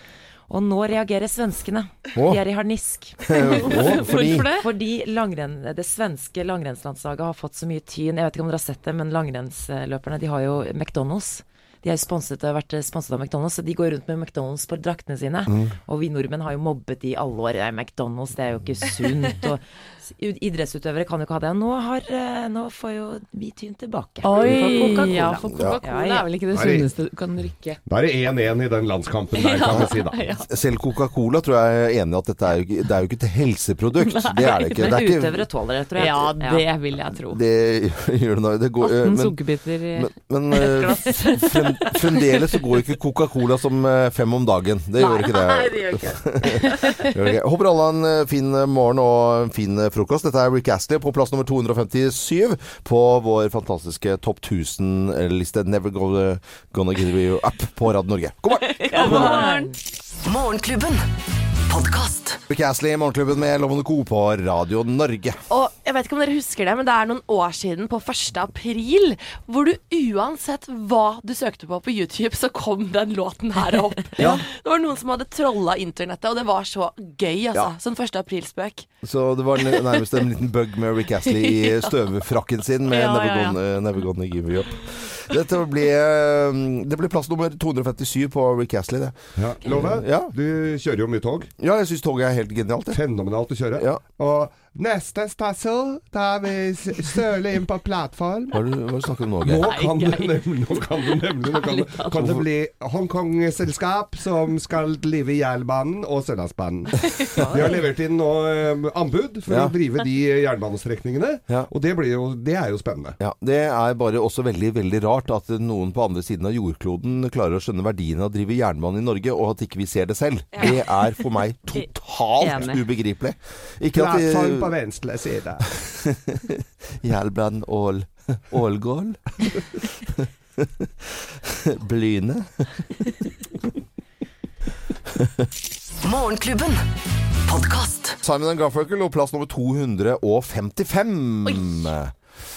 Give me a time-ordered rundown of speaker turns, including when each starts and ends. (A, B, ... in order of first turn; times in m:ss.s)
0:00.5-0:03.4 A
0:03.3-0:04.5 B
0:03.3-0:04.7 C
0:04.6-0:26.3 A
0:15.5-0:15.8 B
0:24.2-0:27.8 C
0:25.5-0:25.8 B
0:26.5-0:26.9 D
0:27.9-0:30.2 D
0:29.3-0:30.5 C
0:30.5-0:35.4 B
0:34.0-0:35.3 C
0:34.8-0:36.7 A
0:36.0-0:37.4 C
0:37.3-0:59.4 B
0:38.8-0:42.6 C
0:45.0-0:47.2 C
0:58.5-0:59.8 C
0:58.9-0:59.8 A
1:00.2-1:01.1 E
1:01.7-1:02.4 E
1:02.5-1:05.4 B
1:05.5-1:18.9 F
1:14.2-1:14.4 B
1:19.0-1:30.3 B
1:21.3-1:21.7 F
1:22.9-1:23.6 C
1:29.4-1:31.5 D
1:31.6-1:33.0 B
1:32.9-1:38.6 D
1:38.5-1:39.7 B
1:39.4-1:53.2 D
1:39.6-1:42.2 C
1:42.2-1:42.4 B
1:47.4-1:47.8 A
1:49.5-1:49.7 B
1:53.2-2:04.7 B
2:02.4-2:02.9 C
2:03.9-2:05.7 D
2:05.8-2:13.1 B
2:15.2-2:15.5 B
2:16.0-2:16.9 E
2:17.5-2:18.2 E
2:18.2-2:22.2 B